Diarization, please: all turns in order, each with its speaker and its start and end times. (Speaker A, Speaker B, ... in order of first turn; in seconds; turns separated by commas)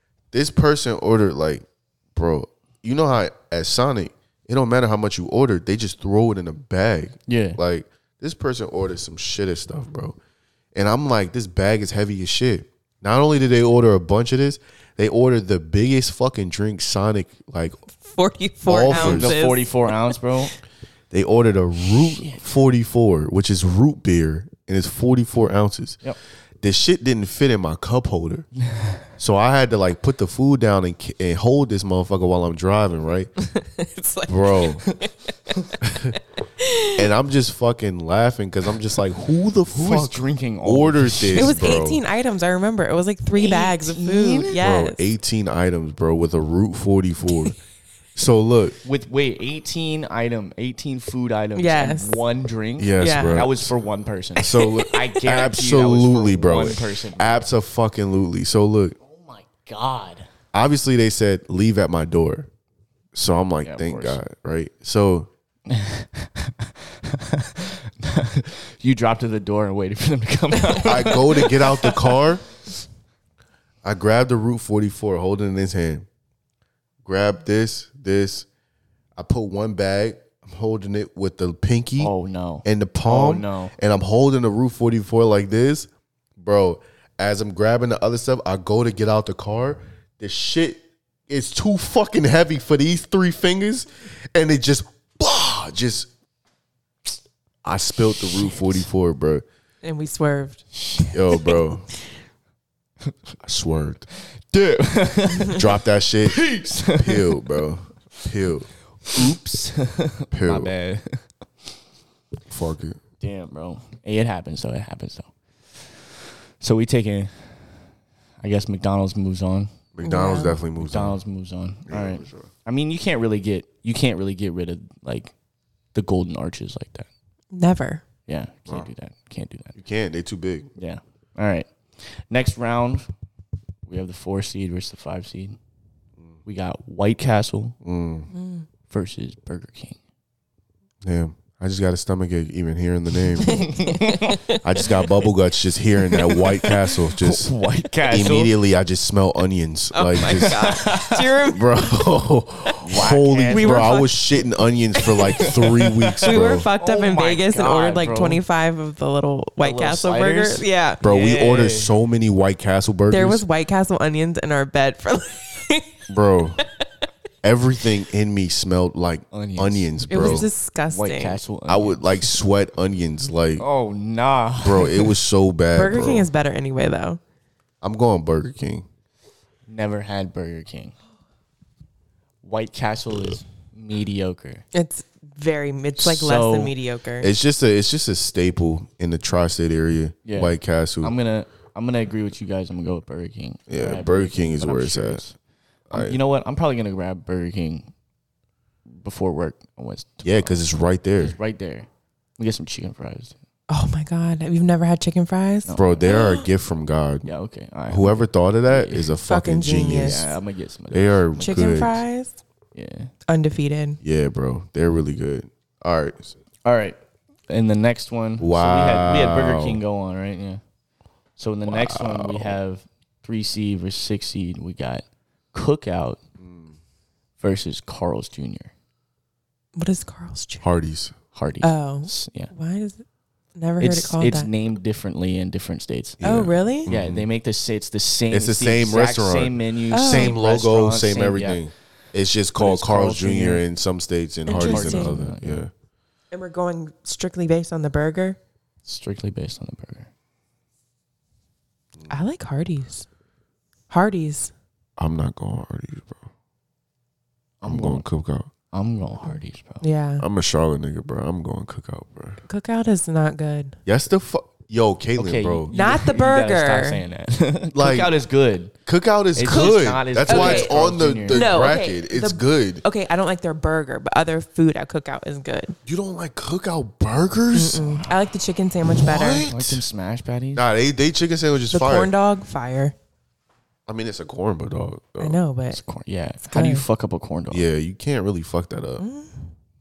Speaker A: 0.3-10.2, Speaker B: 7.3-7.6, Speaker A: 10.7-17.8, Speaker C: 18.0-20.1, Speaker A: 18.7-19.4, Speaker B: 18.9-20.5, Speaker A: 21.1-26.0, Speaker B: 22.2-22.4, Speaker A: 26.6-28.5, Speaker B: 28.6-29.0, Speaker A: 29.2-33.3, Speaker C: 33.4-35.1, Speaker A: 34.3-34.8, Speaker A: 35.8-36.1, Speaker C: 36.6-37.0, Speaker A: 37.0-42.0, Speaker B: 39.7-41.7, Speaker C: 41.3-45.0, Speaker B: 43.4-44.6, Speaker A: 44.6-47.5, Speaker A: 48.1-48.8, Speaker B: 48.8-57.4, Speaker C: 51.5-52.2, Speaker A: 52.8-53.7, Speaker C: 53.0-53.5, Speaker A: 54.4-59.0, Speaker B: 59.0-60.2, Speaker A: 60.5-62.5, Speaker A: 63.1-65.3, Speaker B: 63.6-64.2, Speaker B: 65.7-71.8, Speaker C: 70.6-71.2, Speaker A: 70.8-72.4, Speaker A: 73.8-76.0, Speaker A: 77.0-78.5, Speaker A: 79.2-82.1, Speaker B: 82.0-83.7, Speaker A: 82.6-96.1, Speaker A: 97.6-99.4, Speaker C: 99.8-101.5, Speaker A: 101.1-101.8, Speaker A: 103.4-104.1, Speaker B: 104.5-105.6, Speaker A: 105.5-108.7, Speaker B: 106.2-107.4, Speaker B: 109.1-111.2, Speaker A: 110.3-110.7, Speaker A: 112.5-113.0, Speaker B: 113.2-116.0, Speaker B: 116.6-117.8, Speaker B: 118.4-119.7, Speaker A: 119.9-121.2, Speaker C: 120.0-120.6, Speaker B: 120.8-125.3, Speaker A: 121.9-122.5, Speaker B: 125.9-127.1, Speaker C: 127.5-128.0, Speaker B: 128.2-129.7, Speaker A: 129.7-130.7, Speaker B: 130.8-133.1, Speaker B: 133.8-135.6, Speaker B: 136.4-137.8, Speaker A: 137.8-138.3, Speaker C: 138.3-138.7, Speaker B: 138.9-140.0, Speaker A: 141.0-143.7, Speaker B: 143.4-144.4, Speaker C: 143.6-144.6, Speaker A: 144.6-147.5, Speaker B: 146.5-148.5, Speaker A: 148.1-150.6, Speaker C: 149.9-151.8, Speaker B: 150.2-151.3, Speaker A: 151.5-156.7, Speaker B: 152.8-154.0, Speaker C: 153.5-154.2, Speaker C: 154.9-155.5, Speaker B: 155.2-158.4, Speaker C: 156.2-161.0, Speaker B: 159.6-161.9, Speaker A: 161.0-163.4, Speaker C: 163.1-165.9, Speaker A: 166.1-166.6, Speaker A: 167.4-170.5, Speaker B: 169.3-172.2, Speaker C: 170.1-171.4, Speaker A: 171.7-173.6, Speaker B: 173.6-175.1, Speaker A: 174.6-176.3, Speaker C: 175.7-177.2, Speaker A: 177.8-178.8, Speaker B: 179.7-180.9, Speaker B: 182.4-184.6, Speaker C: 184.7-187.3, Speaker B: 186.0-186.7, Speaker A: 187.2-191.1, Speaker B: 190.2-195.3, Speaker A: 193.7-195.2, Speaker A: 195.9-196.2, Speaker B: 195.9-197.9, Speaker B: 198.9-200.6, Speaker A: 200.2-201.3, Speaker B: 201.2-203.3, Speaker C: 203.7-206.5, Speaker B: 205.6-206.2, Speaker A: 205.8-207.3, Speaker B: 207.2-209.1, Speaker A: 207.9-210.3, Speaker C: 209.2-210.3, Speaker B: 210.0-211.8, Speaker A: 210.9-212.0, Speaker C: 211.4-212.4, Speaker B: 212.7-213.1, Speaker C: 213.3-214.0, Speaker A: 214.0-216.3, Speaker B: 216.6-217.0, Speaker B: 217.5-220.6, Speaker A: 218.4-219.8, Speaker B: 221.4-226.2, Speaker A: 221.7-222.6, Speaker A: 226.4-226.8, Speaker B: 227.4-228.7, Speaker C: 229.8-230.6, Speaker A: 230.6-231.2, Speaker B: 231.3-232.5, Speaker C: 231.6-233.0, Speaker C: 233.6-234.5, Speaker B: 233.8-236.2, Speaker A: 236.2-237.2, Speaker C: 236.2-236.9, Speaker B: 236.8-241.6, Speaker A: 238.3-245.7, Speaker C: 239.9-240.3, Speaker B: 242.6-243.6, Speaker C: 244.5-245.2, Speaker B: 244.5-245.6, Speaker C: 246.3-248.4, Speaker B: 248.8-250.1, Speaker C: 252.1-253.1, Speaker C: 253.9-254.5, Speaker A: 255.0-256.2, Speaker B: 257.6-258.0, Speaker A: 257.6-258.5, Speaker B: 258.7-259.8, Speaker C: 259.8-260.2, Speaker A: 260.2-262.4, Speaker C: 262.5-263.8, Speaker A: 263.9-265.7, Speaker B: 265.2-268.7, Speaker C: 265.7-267.0, Speaker A: 267.7-268.1, Speaker A: 268.8-272.8, Speaker B: 269.3-271.7, Speaker C: 269.5-270.7, Speaker C: 271.3-275.7, Speaker A: 275.9-277.9, Speaker C: 277.5-279.5, Speaker A: 279.0-279.8, Speaker B: 279.5-280.7, Speaker A: 280.5-282.1, Speaker C: 281.7-282.9, Speaker A: 283.9-285.4, Speaker C: 285.2-285.8, Speaker B: 285.7-287.6, Speaker C: 286.4-286.8, Speaker A: 287.5-289.0, Speaker C: 289.0-289.5